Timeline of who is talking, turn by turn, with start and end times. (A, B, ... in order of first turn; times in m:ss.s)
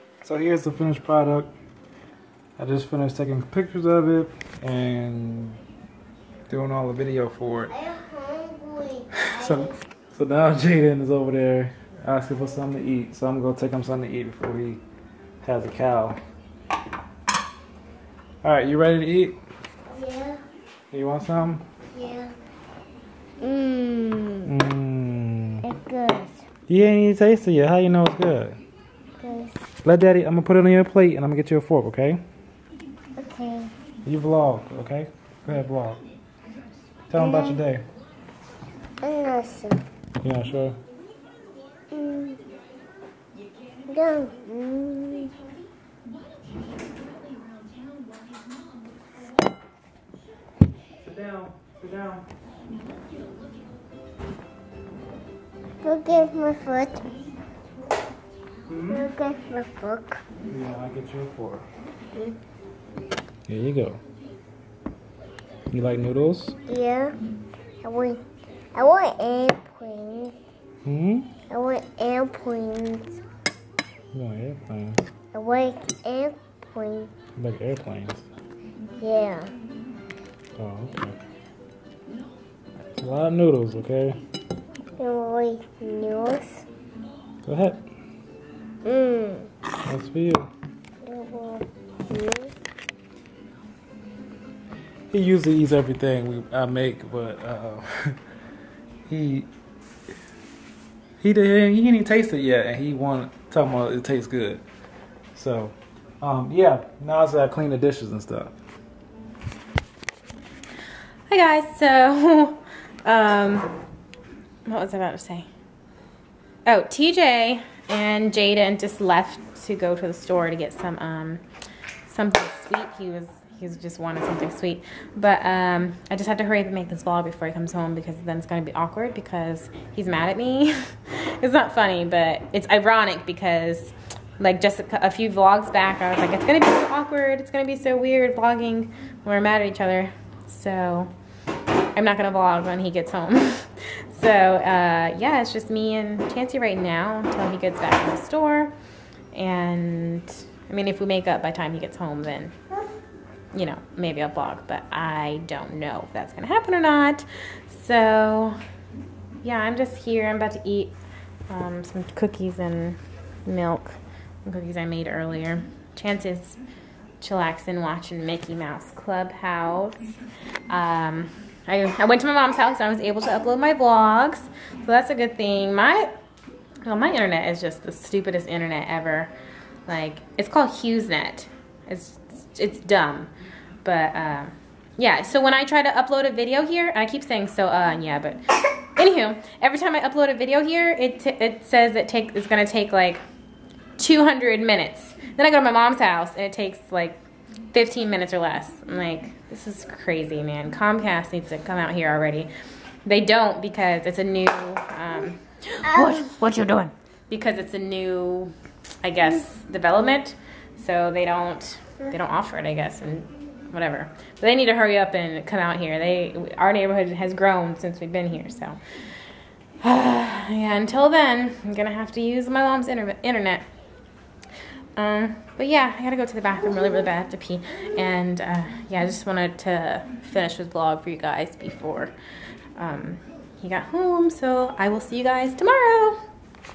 0:00.2-0:01.5 A
0:02.6-0:05.6 A
0:06.5-0:07.7 A
0:07.7-0:09.7 B
0:09.2-0:14.8 A
0:15.4-0:16.2 A
0:18.4-0:19.4 A
0:19.9-0:20.4 B
0:20.9-0:21.6 A
0:21.9-0:22.3 B
0:23.4-0:24.5 B
0:24.4-0:25.6 A
0:25.6-0:26.4 B
0:26.7-0:28.6 A
0:29.2-0:29.6 B
0:29.8-0:32.2 A
0:33.2-0:33.7 B
0:34.0-0:36.0 A
0:37.1-0:37.8 A
0:37.2-0:37.6 B
0:39.0-0:39.8 B
0:40.2-0:40.8 A
0:41.9-0:42.4 B
0:43.9-0:45.3 B
0:51.0-0:52.2 A
0:55.8-0:57.0 B
0:58.7-0:59.0 A
0:58.9-1:00.2 B
1:00.5-1:01.6 A
1:03.5-1:04.0 A
1:05.7-1:06.6 A
1:06.7-1:07.1 B
1:07.8-1:08.2 B
1:08.7-1:10.3 B
1:10.8-1:11.3 A
1:11.5-1:13.2 B
1:14.1-1:15.0 A
1:15.3-1:17.1 B
1:17.4-1:18.2 A
1:19.0-1:19.5 B
1:20.6-1:21.2 A
1:23.0-1:24.2 A
1:25.0-1:26.6 B
1:27.4-1:27.8 A
1:28.8-1:29.5 B
1:29.8-1:30.5 A
1:31.0-1:32.5 B
1:35.1-1:38.2 A
1:39.1-1:39.5 A
1:41.2-1:44.6 A
1:45.3-1:48.5 A
1:51.3-1:53.7 C
1:54.6-1:55.5 C
1:56.6-2:01.4 C
2:02.1-2:21.1 C
2:21.9-2:28.7 C
2:29.3-2:32.5 C
2:33.5-2:38.6 C
2:39.4-2:41.0 C
2:41.5-2:46.6 C
2:47.2-2:50.2 C
2:50.7-2:56.1 C
2:56.8-2:59.3 C
2:59.9-3:03.3 C
3:03.8-3:13.2 C
3:14.0-3:17.2 C
3:17.7-3:22.5 C
3:23.0-3:38.8 C
3:25.9-3:26.1 B
3:39.8-3:43.6 C
3:45.0-3:52.1 C
3:52.8-3:56.2 C